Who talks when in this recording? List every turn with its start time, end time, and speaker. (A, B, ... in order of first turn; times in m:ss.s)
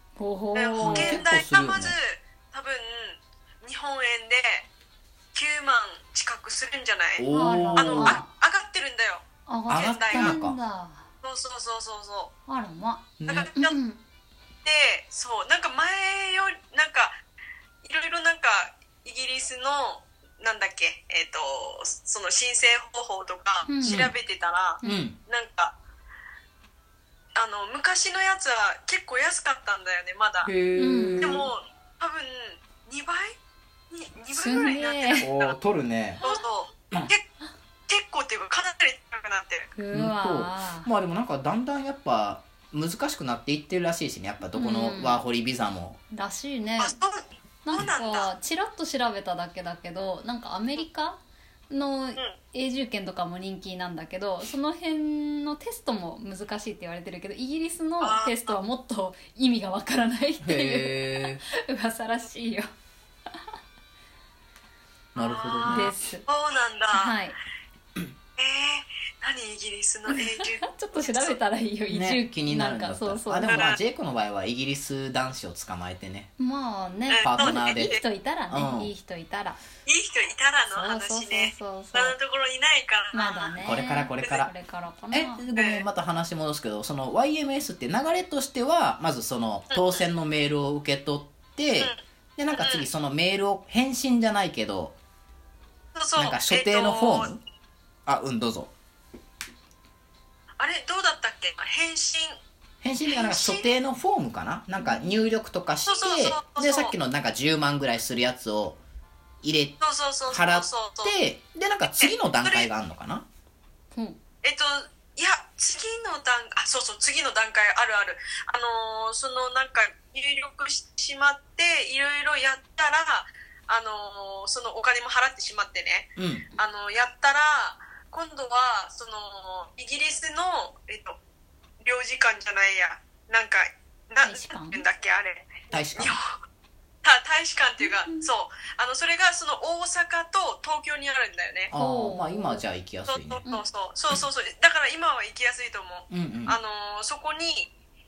0:00.2-0:01.2 A
0:00.6-0:04.7 B
0:00.8-0:02.0 C
0:05.3-0:10.3 B
0:07.2-0:08.2 C
0:07.3-0:08.3 A
0:09.5-0:11.1 A
0:09.7-0:10.6 C
0:11.2-0:12.3 B
0:12.5-0:14.0 A
0:13.2-0:13.5 C
0:13.3-0:13.8 B
0:14.6-0:17.2 B
0:17.8-0:25.8 B
0:23.6-0:24.1 A
0:23.8-0:24.1 C
0:24.8-0:25.2 C
0:27.4-0:30.5 B
0:30.4-0:31.5 C
0:30.8-0:31.4 A
0:31.2-0:33.4 B
0:33.9-0:35.6 B
0:34.4-0:35.3 A
0:35.2-0:36.2 C
0:36.2-0:37.2 B
0:37.9-0:39.7 B
0:39.8-0:40.9 A
0:39.9-0:46.0 C
0:44.5-0:45.2 A
0:46.1-0:47.0 A
0:46.8-0:48.3 B
0:47.6-1:02.7 A
0:58.0-0:58.5 B
1:00.4-1:01.4 C
1:05.2-1:06.0 C
1:05.2-1:07.1 B
1:05.7-1:06.2 A
1:06.9-1:07.4 A
1:08.4-1:11.4 B
1:10.1-1:13.7 A
1:11.9-1:16.3 C
1:13.5-1:13.8 B
1:16.4-1:19.6 A
1:17.1-1:18.0 B
1:17.2-1:18.0 C
1:18.5-1:18.9 C
1:19.9-1:23.6 B
1:20.7-1:22.2 A
1:23.1-1:25.4 A
1:23.6-1:24.5 C
1:25.1-1:35.0 C
1:25.6-1:25.8 B
1:29.7-1:30.0 B
1:32.5-1:32.9 B
1:36.0-1:37.3 B
1:36.2-1:37.4 C
1:38.1-1:38.7 C
1:40.6-1:42.4 B
1:42.8-1:48.8 C
1:43.1-1:43.7 B
1:44.8-1:45.3 A
1:45.8-1:47.0 B
1:49.4-1:53.3 C
1:49.8-1:51.1 B
1:52.0-1:52.7 B
1:53.9-1:54.2 A
1:54.4-2:11.2 B
2:06.2-2:06.5 C
2:11.8-2:16.3 B
2:14.2-2:14.8 A
2:15.7-2:16.2 C
2:17.0-2:21.7 B
2:17.8-2:18.3 A
2:21.7-2:23.4 C
2:21.7-2:22.7 A
2:23.1-2:27.7 B
2:26.1-2:26.6 C